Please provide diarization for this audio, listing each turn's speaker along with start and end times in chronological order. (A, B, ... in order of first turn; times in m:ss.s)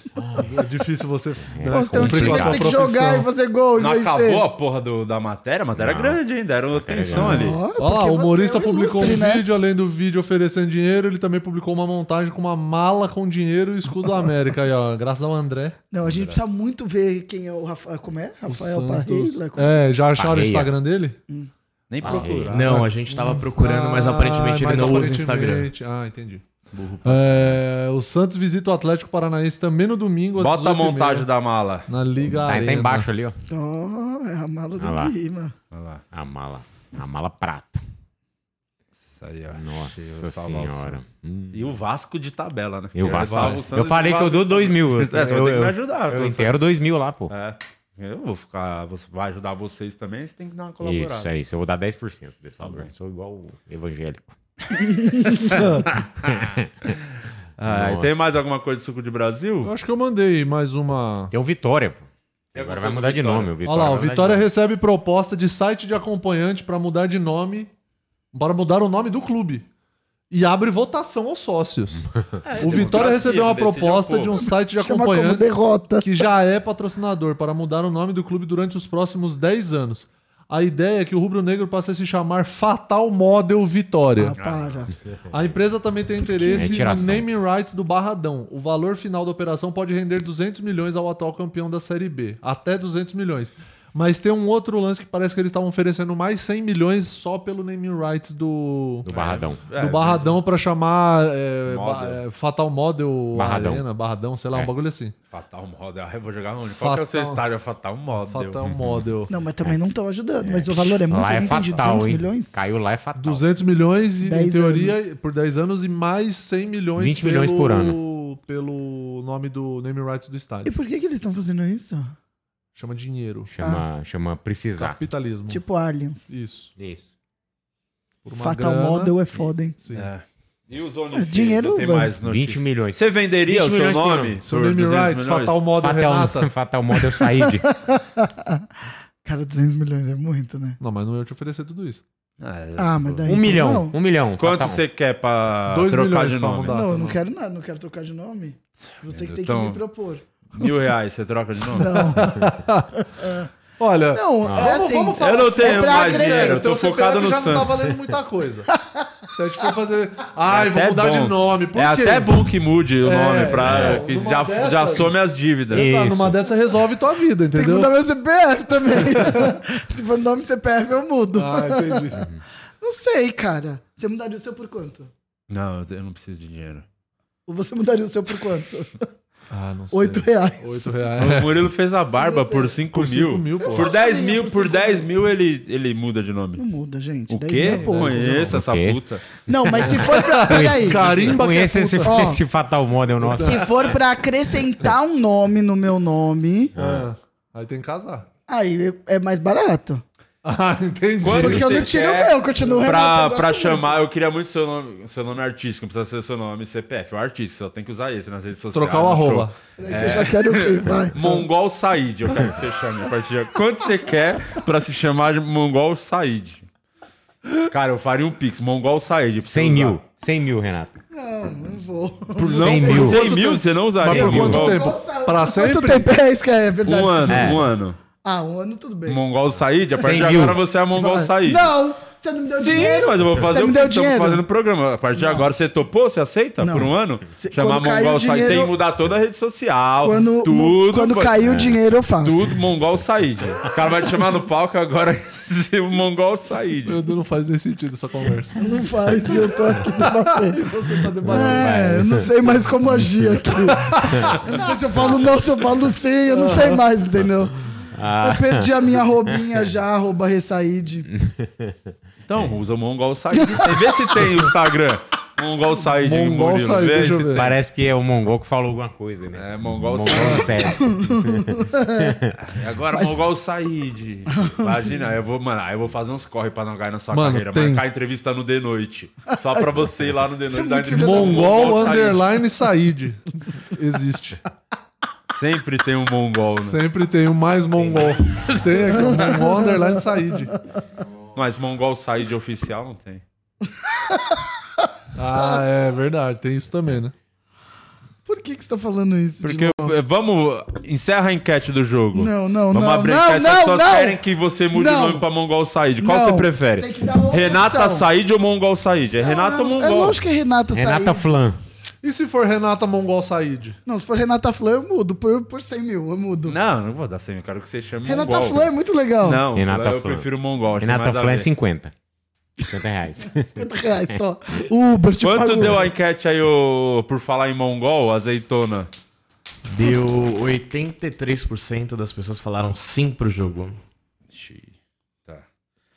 0:00.2-0:00.5 A
0:00.5-0:03.3 B
0:01.5-0:02.7 A
0:01.7-0:04.4 C
0:03.8-0:07.6 D
0:05.8-0:06.2 A
0:06.7-0:07.6 A
0:07.2-0:09.5 C
0:07.8-0:15.8 B
0:15.9-0:19.8 C
0:16.0-0:16.4 D
0:18.5-0:21.2 B
0:20.2-0:20.7 A
0:21.9-0:22.6 D
0:22.0-0:22.6 A
0:22.0-0:26.4 B
0:22.5-0:25.7 E
0:26.7-0:27.6 D
0:27.0-0:31.3 B
0:30.4-0:31.9 D
0:31.9-0:33.1 B
0:32.4-0:33.4 A
0:33.5-0:35.5 C
0:34.8-0:35.1 A
0:35.7-0:36.0 D
0:36.1-0:37.8 A
0:39.2-0:41.0 D
0:39.5-0:41.6 A
0:41.5-0:46.6 D
0:42.9-0:47.3 A
0:47.3-0:51.3 D
0:50.8-0:54.4 A
0:52.6-0:52.9 D
0:54.9-0:55.2 C
0:55.5-0:55.9 B
0:56.3-0:56.9 A
0:57.6-0:59.7 D
0:57.6-0:58.4 A
0:59.6-1:01.3 B
1:01.3-1:02.0 A
1:02.5-1:04.4 A
1:02.6-1:03.5 D
1:03.6-1:07.7 B
1:08.3-1:09.6 B
1:10.3-1:24.4 B
1:12.5-1:14.4 D
1:14.8-1:16.1 C
1:24.2-1:24.9 C
1:24.4-1:24.8 D
1:25.3-1:39.1 B
1:26.2-1:27.1 C
1:26.5-1:27.3 A
1:39.1-1:39.6 A
1:39.1-1:40.4 D
1:39.8-1:45.1 B
1:41.7-1:42.2 D
1:43.4-1:43.8 A
1:45.3-1:48.6 D
1:46.8-1:47.4 B
1:48.3-1:49.3 B
1:48.6-1:49.1 A
1:49.3-1:52.6 C
1:50.4-1:53.4 A
1:53.2-2:00.8 B
1:54.2-1:55.0 C
1:57.0-1:58.0 A
2:00.6-2:02.1 C
2:02.8-2:03.5 B
2:03.5-2:05.0 A
2:04.8-2:05.6 B
2:05.5-2:06.3 C
2:06.3-2:06.7 B
2:06.8-2:07.1 A
2:08.2-2:09.1 B
2:08.4-2:09.8 C
2:09.8-2:10.1 B
2:09.9-2:15.6 D
2:11.1-2:12.1 C
2:12.2-2:14.4 A
2:14.4-2:16.5 B
2:15.8-2:17.6 A
2:17.0-2:18.6 C
2:19.2-2:20.8 C
2:20.8-2:22.0 B
2:22.4-2:23.5 D
2:22.8-2:23.9 C
2:23.2-2:24.8 A
2:24.4-2:26.8 D
2:25.7-2:27.2 B
2:26.7-2:30.2 C
2:28.9-2:29.8 D
2:30.6-2:32.0 D
2:31.8-2:32.3 C
2:32.0-2:32.9 B
2:33.0-2:33.5 C
2:33.8-2:38.7 B
2:34.1-2:36.7 C
2:35.2-2:37.7 D
2:38.8-2:39.2 C
2:39.3-2:42.3 B
2:40.5-2:45.9 D
2:43.0-2:45.1 B
2:43.6-2:44.1 A
2:45.7-2:47.9 B
2:45.7-2:46.4 A
2:47.5-2:52.2 C
2:49.0-2:49.5 B
2:51.4-2:52.3 B
2:52.8-2:55.1 C
2:55.5-2:56.8 D
2:57.5-2:58.9 C
2:59.5-3:01.7 B
2:59.9-3:01.0 C
3:01.2-3:06.6 D
3:02.2-3:02.8 C
3:02.9-3:03.9 B
3:03.6-3:05.1 C
3:06.6-3:08.4 C
3:07.3-3:09.2 D
3:07.6-3:08.5 B
3:08.5-3:09.0 A
3:09.5-3:11.3 C
3:10.0-3:12.3 B
3:10.4-3:13.9 A
3:12.0-3:12.4 C
3:13.2-3:14.0 B
3:13.4-3:16.7 C
3:16.8-3:17.1 A
3:16.8-3:18.3 B
3:18.5-3:20.0 C
3:20.4-3:21.9 B
3:21.2-3:36.6 D
3:21.2-3:23.9 C
3:28.7-3:29.5 B
3:29.8-3:31.4 C
3:37.7-3:40.0 D
3:39.4-3:40.9 A
3:41.1-3:43.1 C
3:42.4-3:44.9 D
3:42.5-3:43.2 A
3:42.9-3:46.1 B
3:44.1-3:44.5 A
3:44.1-3:47.6 C
3:46.9-3:48.0 D
3:47.3-3:47.7 A
3:48.2-3:49.2 C
3:49.1-3:51.7 D
3:50.0-3:50.6 A
3:50.9-3:54.4 C
3:52.5-4:01.5 D
3:55.2-3:55.5 C
3:56.6-3:58.7 C
4:00.0-4:02.5 C
4:01.4-4:01.8 A
4:02.2-4:07.0 D
4:06.9-4:08.6 B
4:08.6-4:10.6 C
4:09.5-4:12.0 B
4:11.2-4:17.5 C
4:11.3-4:12.2 A
4:13.8-4:14.5 B
4:16.3-4:16.8 B
4:17.9-4:18.8 A
4:18.2-4:21.1 C
4:21.2-4:22.5 A
4:22.3-4:27.5 D
4:23.4-4:24.2 C
4:26.0-4:27.5 B
4:27.3-4:32.3 A
4:29.3-4:30.8 D
4:30.6-4:32.2 C
4:32.5-4:42.3 D
4:34.3-4:34.7 C
4:37.1-4:37.8 B
4:39.3-4:39.7 C
4:40.5-4:41.7 C
4:40.9-4:44.4 B
4:45.3-4:46.8 D
4:46.6-4:50.5 B
4:47.9-4:49.2 D
4:48.9-4:50.6 C
4:51.4-4:53.2 D
4:53.9-4:54.4 C
4:55.1-4:57.1 B
4:58.3-5:00.0 C
4:59.4-5:10.2 D
5:02.1-5:04.2 C
5:04.7-5:05.2 C
5:06.0-5:08.0 C
5:09.2-5:11.3 C
5:10.7-5:11.6 A
5:12.0-5:13.8 B
5:13.9-5:16.6 C
5:16.5-5:21.5 D
5:18.1-5:19.4 C
5:19.6-5:20.3 A
5:20.8-5:21.9 A
5:22.6-5:24.2 A
5:23.4-5:25.9 C
5:25.2-5:28.9 D
5:29.7-5:33.8 E
5:34.3-5:34.7 D